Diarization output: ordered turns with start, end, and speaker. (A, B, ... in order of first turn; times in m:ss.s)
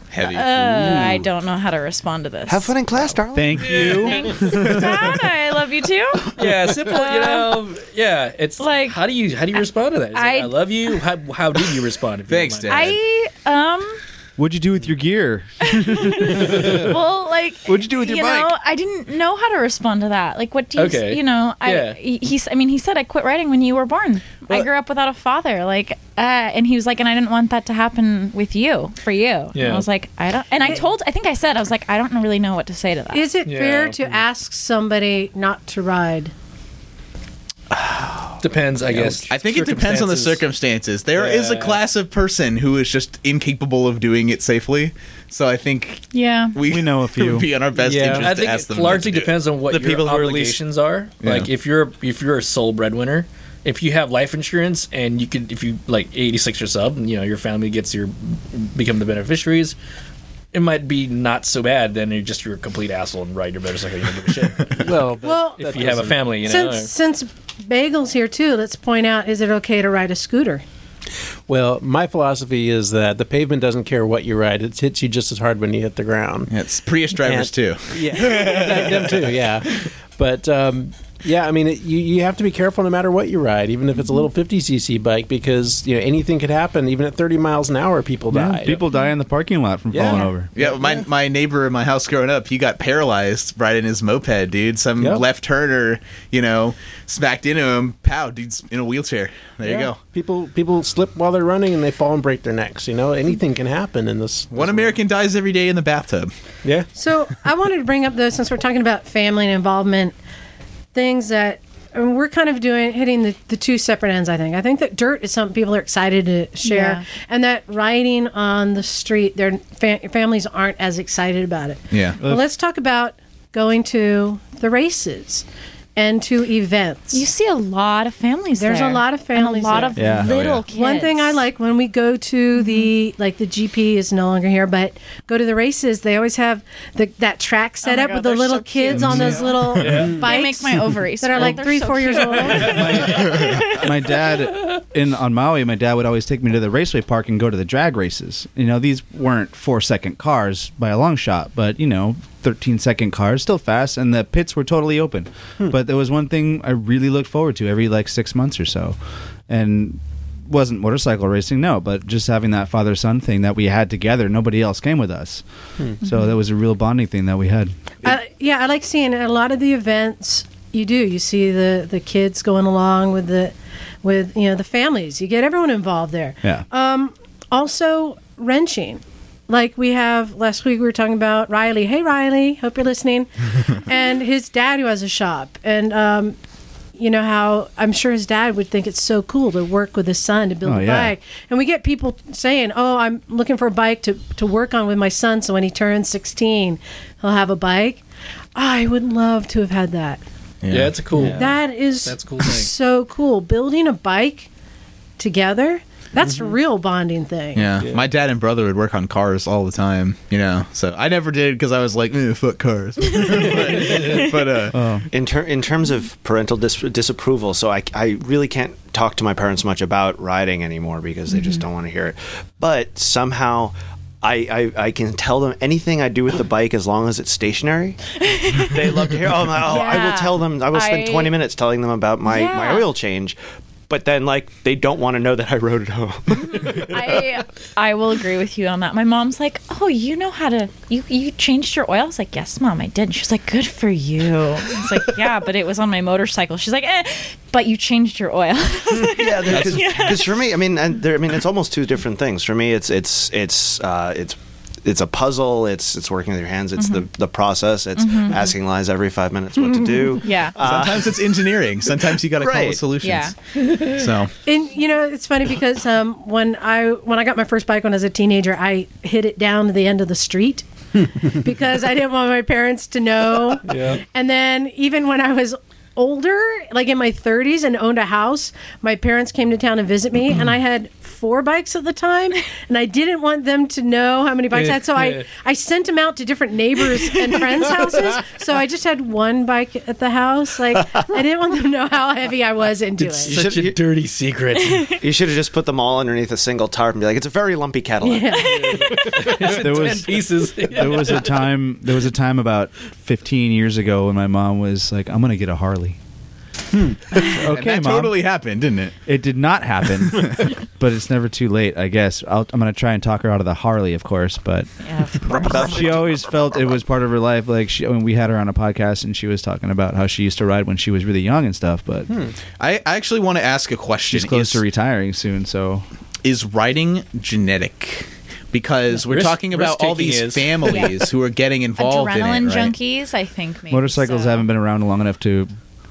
0:00.1-0:01.1 A
0:00.2-0:02.9 B
0:00.7-0:01.3 C
0:02.5-0:04.0 C
0:03.3-0:05.1 D
0:03.6-0:04.4 E
0:03.9-0:07.6 B
0:06.4-0:13.0 E
0:08.6-0:09.0 B
0:10.1-0:11.0 B
0:12.3-0:13.0 A
0:12.7-0:14.0 B
0:14.4-0:17.0 D
0:15.6-0:33.3 B
0:16.4-0:16.8 E
0:17.7-0:18.5 D
0:20.8-0:22.0 E
0:29.6-0:29.9 E
0:33.1-0:36.3 F
0:33.5-0:34.2 E
0:37.7-0:49.4 A
0:38.4-0:40.4 E
0:41.2-0:41.8 E
0:46.1-0:46.6 B
0:46.6-0:47.5 D
0:47.8-0:48.3 G
0:47.9-0:59.8 E
0:49.8-0:50.5 G
0:51.2-0:51.5 A
1:00.5-1:06.9 E
1:04.8-1:06.3 G
1:05.2-1:05.6 F
1:06.4-1:10.6 F
1:11.5-1:16.5 G
1:16.5-1:19.5 A
1:17.2-1:28.8 G
1:28.3-1:30.5 D
1:29.9-1:31.0 G
1:30.6-1:40.0 A
1:35.0-1:35.2 G
1:39.6-1:45.0 G
1:44.5-1:46.3 A
1:46.9-1:50.2 F
1:50.9-2:05.4 F
1:56.6-1:57.0 B
2:01.9-2:02.2 A
2:06.0-2:07.2 F
2:07.1-2:11.4 B
2:08.6-2:23.1 F
2:10.0-2:10.3 D
2:10.2-2:10.6 A
2:12.6-2:12.9 B
2:17.8-2:23.8 B
2:19.0-2:20.1 A
2:19.7-2:20.3 E
2:22.4-2:23.1 E
2:22.6-2:39.0 D
2:23.3-2:23.6 A
2:39.5-2:45.4 D
2:46.0-2:48.1 D
2:46.0-2:46.4 B
2:48.0-3:06.4 F
3:07.0-3:18.0 F
3:10.6-3:11.1 D
3:18.6-3:20.2 F
3:20.6-3:21.3 A
3:20.7-3:22.7 E
3:21.3-3:24.5 F
3:25.2-3:27.7 F
3:26.3-3:26.5 G
3:27.6-3:34.8 A
3:33.1-3:33.4 B
3:34.7-3:35.1 D
3:35.1-3:48.0 C
3:41.3-3:41.6 B
3:48.2-3:51.4 B
3:48.6-3:53.4 C
3:52.2-3:52.9 B
3:53.9-3:57.3 C
3:56.4-4:10.4 B
4:09.0-4:21.3 C
4:16.8-4:17.1 B
4:18.0-4:18.5 B
4:20.1-4:20.7 B
4:20.6-4:24.3 A
4:22.4-4:22.9 C
4:23.0-4:23.4 B
4:24.4-4:53.4 F
4:33.7-4:34.0 E
4:44.5-4:45.2 E
4:47.3-4:47.5 B
4:50.8-4:51.0 C
4:53.2-4:53.8 C
4:53.3-4:54.9 E
4:54.7-4:55.0 B
4:55.0-4:59.3 C
4:58.0-4:58.8 F
4:58.5-5:01.5 E
4:59.4-5:06.0 D
5:07.1-5:08.2 D
5:07.2-5:09.0 A
5:09.1-5:14.7 D
5:10.2-5:10.5 A
5:14.8-5:16.0 B
5:15.2-5:16.8 C
5:15.5-5:22.1 D
5:22.1-5:22.4 G
5:22.6-5:24.6 A
5:24.1-5:25.8 D
5:26.2-5:32.8 A
5:29.0-5:31.0 E
5:30.6-5:31.0 B
5:31.8-5:34.5 B
5:33.7-5:35.5 D